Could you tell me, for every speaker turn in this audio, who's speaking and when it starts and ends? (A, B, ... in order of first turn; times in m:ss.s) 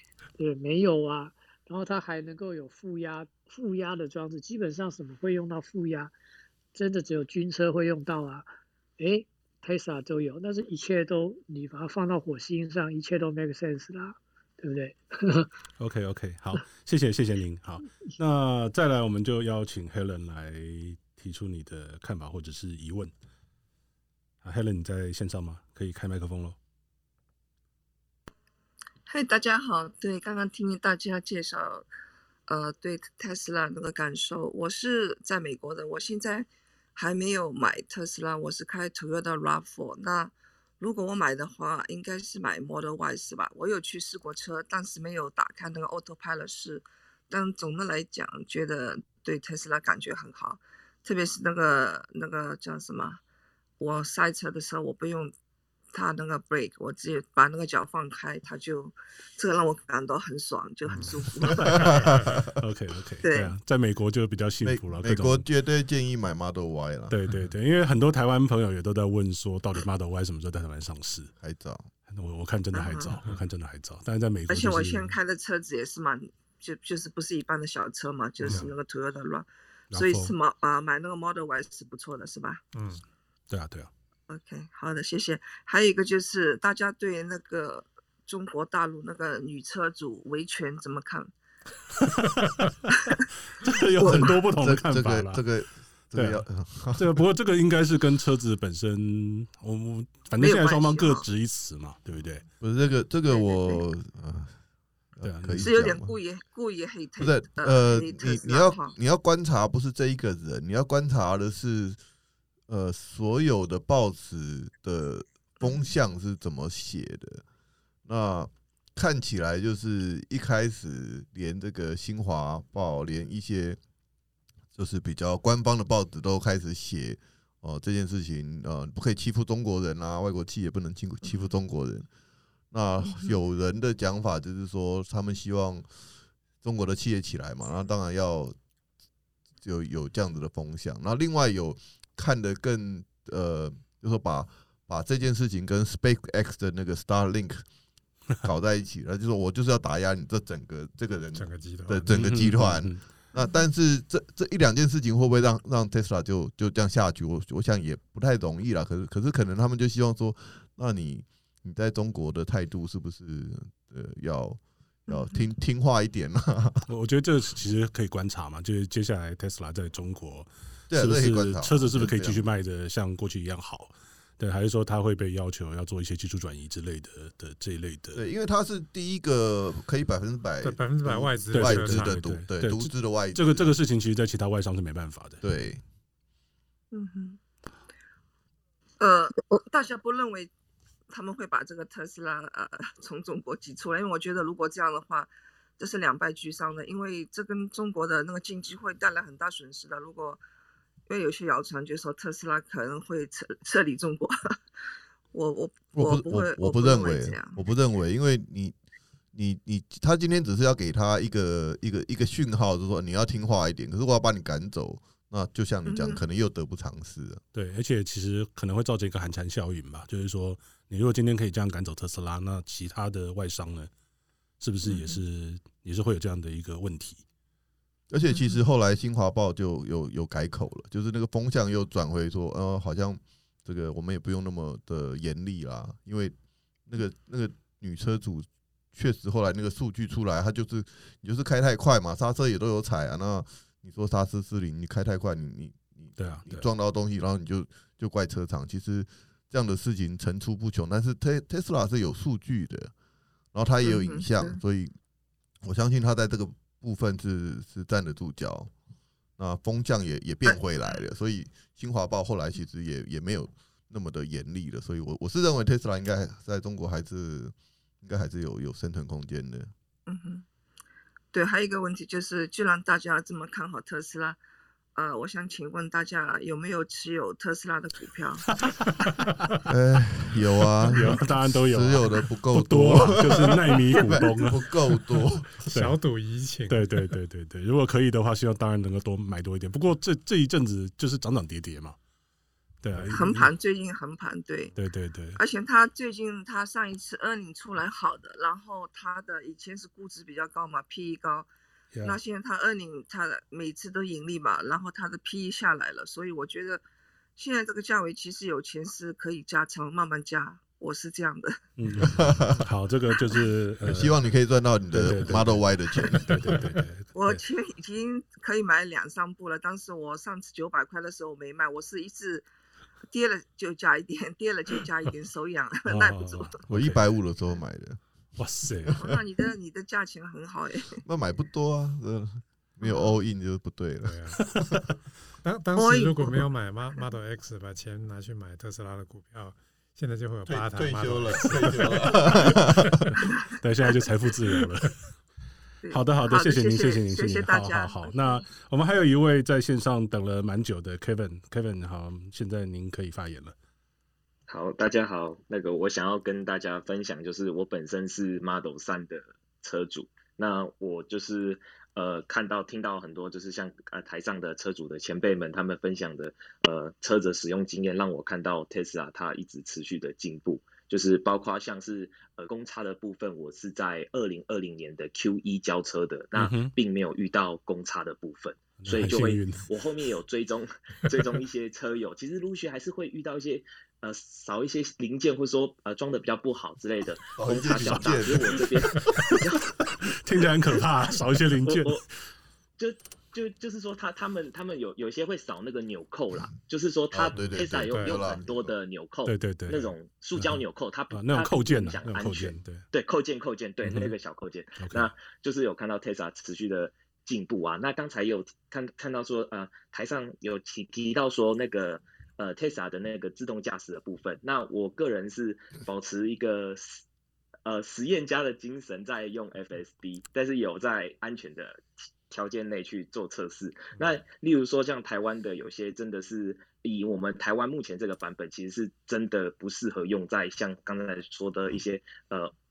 0:00.4-0:06.1 A
0:06.8-0:15.5 A
0:15.8-0:23.1 B
0:24.4-0:26.6 B
0:29.1-0:31.9 C
0:32.5-0:53.2 C
0:53.8-0:55.3 C
0:55.9-1:01.9 C
1:01.6-1:01.9 B
1:01.7-1:02.5 D
1:02.5-1:05.4 B
1:03.2-1:03.5 C
1:04.6-1:07.2 D
1:07.1-1:11.3 B
1:11.4-1:11.9 D
1:12.1-1:15.2 B
1:12.7-1:13.2 C
1:14.5-1:22.6 C
1:18.4-1:18.7 B
1:19.9-1:20.3 B
1:22.7-1:23.0 E
1:23.5-1:23.9 B
1:24.3-1:31.3 C
1:33.6-1:35.4 B
1:34.0-1:34.4 C
1:34.3-1:37.2 D
1:36.1-1:36.4 B
1:37.0-1:42.4 B
1:40.4-1:41.3 C
1:42.6-1:44.6 D
1:43.3-1:43.8 C
1:45.2-1:46.2 D
1:45.2-1:45.9 B
1:45.6-1:49.0 C
1:47.2-1:52.0 D
1:52.7-1:57.4 D
1:58.1-2:03.8 D
2:04.8-2:12.1 D
2:12.7-2:15.9 D
2:16.6-2:18.6 D
2:19.6-2:27.6 D
2:28.4-2:46.9 D
2:31.3-2:32.2 E
2:32.1-2:33.0 B
2:45.1-2:45.4 C
2:46.9-2:58.2 B
2:50.9-2:52.5 D
2:58.2-3:03.7 D
3:00.6-3:02.2 E
3:01.5-3:05.5 B
3:05.4-3:05.8 D
3:06.9-3:07.4 C
3:09.0-3:10.5 C
3:11.1-3:20.4 C
3:21.1-3:24.6 C
3:25.3-3:27.6 C
3:26.0-3:28.8 D
3:29.3-3:37.4 D
3:35.9-3:36.2 C
3:37.5-3:43.9 B
3:44.6-3:47.2 B
3:44.8-3:45.2 C
3:48.1-3:56.4 D
3:56.9-4:12.9 D
4:06.2-4:06.7 B
4:13.5-4:14.9 D
4:13.8-4:14.6 C
4:15.6-4:18.7 D
4:19.4-4:29.7 D
4:30.1-4:30.4 C
4:31.3-4:34.4 C
4:35.0-4:38.5 C
4:39.7-4:45.5 D
4:40.8-4:46.0 B
4:45.7-4:47.0 E
4:46.7-4:52.0 B
4:52.8-4:53.5 B
4:53.1-4:54.7 C
4:54.8-4:55.4 B
4:55.4-5:01.5 C
5:01.9-5:02.2 B
5:02.0-5:06.8 C
5:07.4-5:11.6 C
5:11.8-5:14.2 B
5:12.0-5:12.6 D
5:13.8-5:16.6 D
5:14.9-5:17.4 B
5:17.1-5:22.5 C
5:23.1-5:26.6 C
5:25.9-5:27.0 B
5:26.7-5:28.0 D
5:28.4-5:29.2 B
5:28.9-5:31.0 C
5:31.0-5:34.8 D
5:34.0-5:34.4 E
5:35.4-5:43.1 E
5:35.8-5:36.4 C
5:40.5-5:43.1 D
5:43.6-5:45.0 B
5:45.8-5:48.5 C
5:45.9-5:53.6 B
5:54.5-6:29.7 F
6:16.4-6:16.8 B
6:18.8-6:19.7 B
6:27.4-6:28.7 D
6:27.8-6:29.4 B
6:30.1-6:32.1 B
6:31.6-6:32.0 F
6:32.8-6:57.0 F
6:37.1-6:38.7 D
6:37.3-6:38.2 E
6:39.3-6:42.9 B
6:43.8-6:44.1 B
6:44.8-6:45.1 B
6:57.6-7:12.5 F